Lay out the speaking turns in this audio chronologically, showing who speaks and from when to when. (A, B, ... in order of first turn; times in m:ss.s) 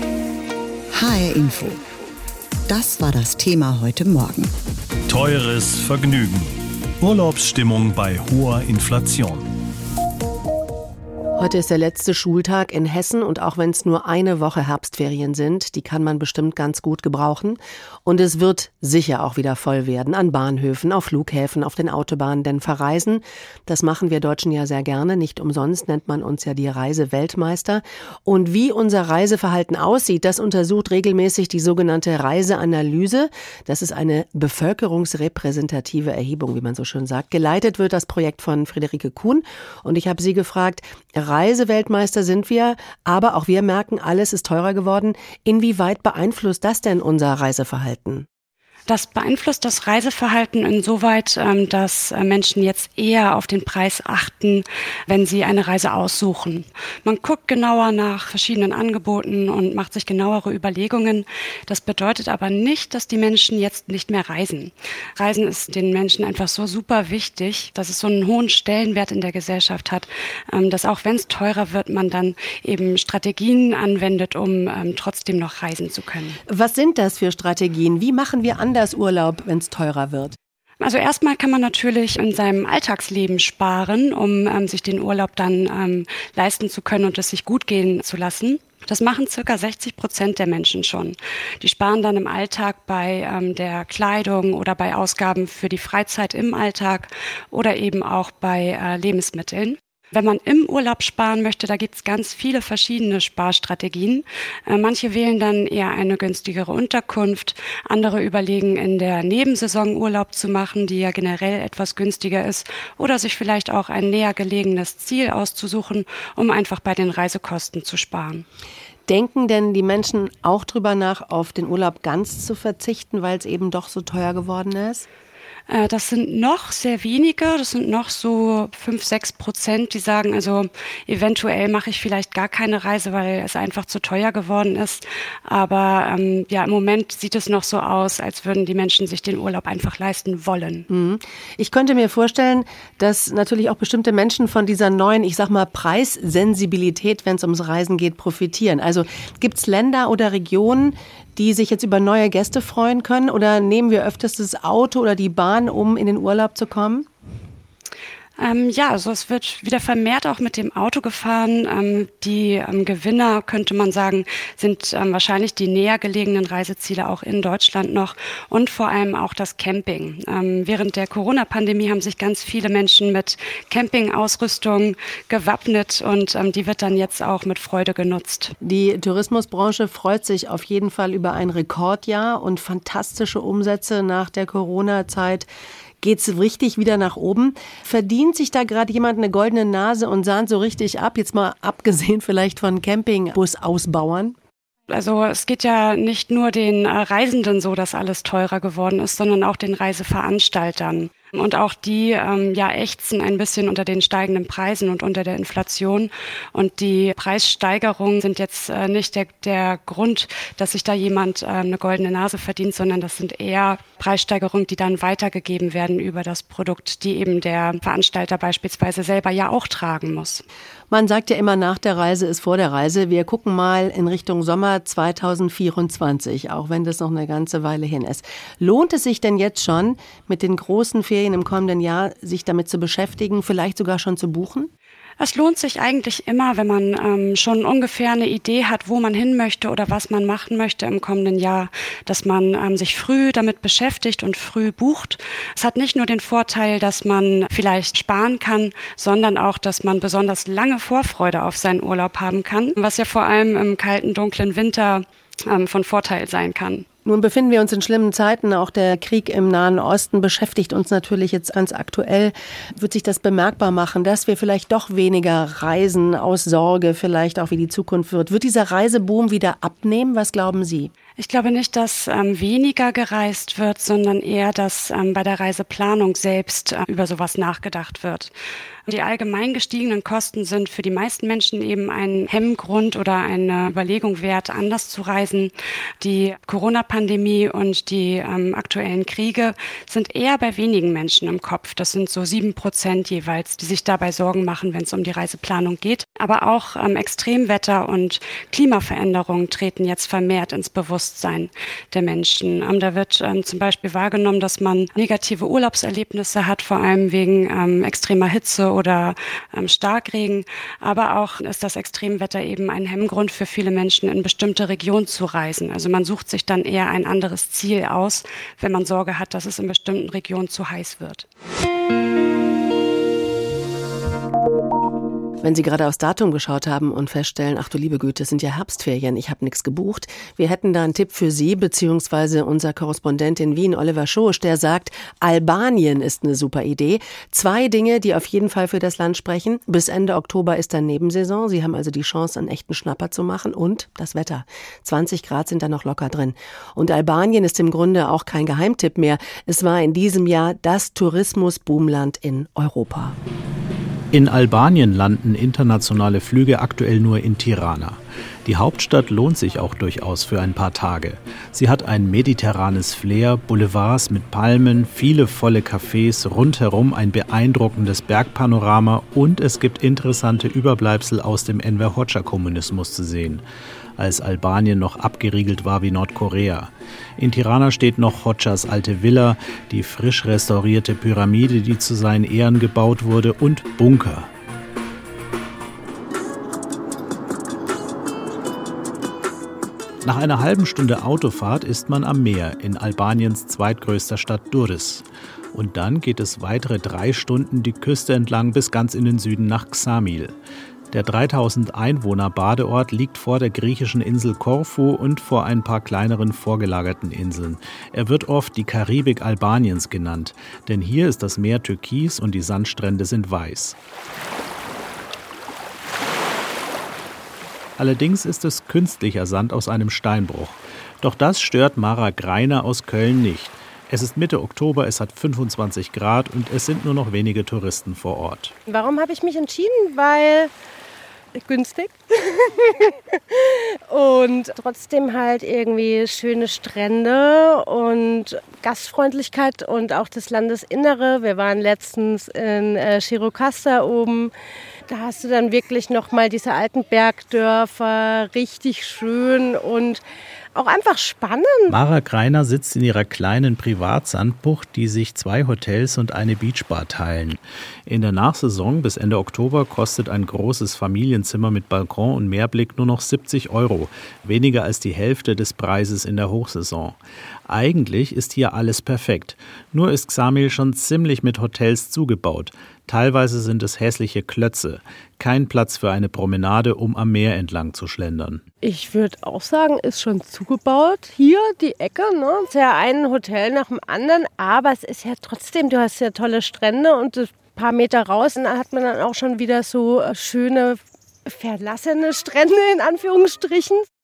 0:00.9-0:01.8 A
0:02.7-0:04.5 A
0:05.1-0:06.4 B
0:07.1-0:09.2 B
0:11.4-0:48.2 C
0:48.9-1:16.4 D
1:16.5-1:20.4 C
1:20.8-1:58.4 D
1:59.1-2:05.1 C
2:05.7-2:20.8 D
2:20.9-2:37.1 C
2:38.4-2:58.5 D
2:58.6-3:05.5 C
3:06.0-3:14.3 C
3:14.9-3:40.4 D
3:40.9-3:54.7 C
3:55.2-4:16.8 D
4:17.0-4:30.9 C
4:31.2-4:38.3 D
4:38.9-5:21.3 D
5:25.4-5:53.2 C
5:54.1-6:13.4 E
6:14.0-6:24.3 E
6:30.0-6:40.4 E
6:40.9-6:53.8 E
6:57.8-7:08.5 E
7:08.7-7:10.5 F
7:11.4-7:12.9 F
7:13.9-7:24.3 F
7:24.9-7:30.0 F
7:30.6-7:31.6 F
7:31.7-7:58.4 E
7:58.6-8:10.8 F
8:11.4-8:13.8 F